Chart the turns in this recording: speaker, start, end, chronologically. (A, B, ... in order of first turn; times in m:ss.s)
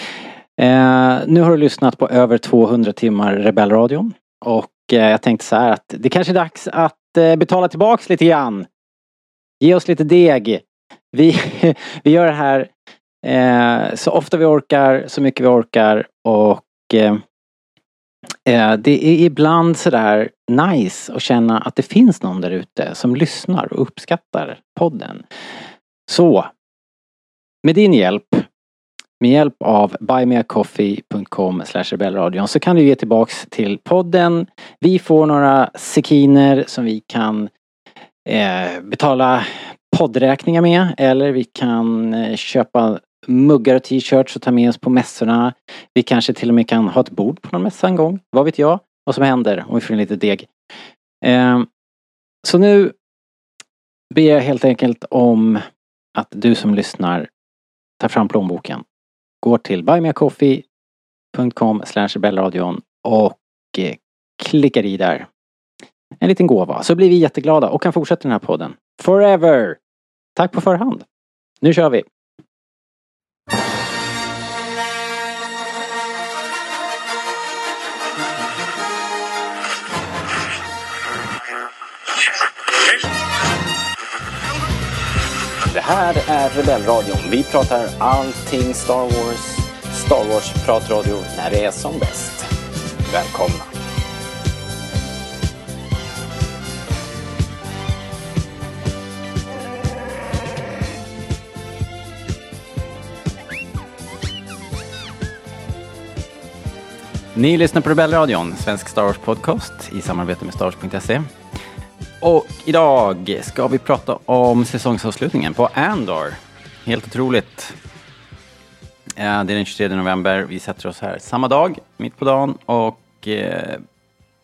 0:00.6-0:08.7 A
0:09.6-0:12.7 A
0:13.2-0:17.2 A
0:18.4-0:25.2 A
0:26.1-0:26.5 A
0:27.6-0:28.5 A
0:29.2-0:37.5 A
0:38.2-0:50.5 A
0:51.2-0:51.7 A
0:52.4-0:52.9 A
0:54.1-0:55.6 A
0:56.2-0:57.3 A
0:58.0-0:58.8 A
0:59.4-1:00.6 A
1:01.3-1:05.3 A
1:06.2-1:09.8 A
1:10.4-1:11.0 A
1:11.6-1:12.0 A
1:25.6-1:32.5 A
1:33.1-1:33.7 A
1:47.3-1:51.3 A
1:52.2-1:57.7 A
1:59.2-2:03.8 A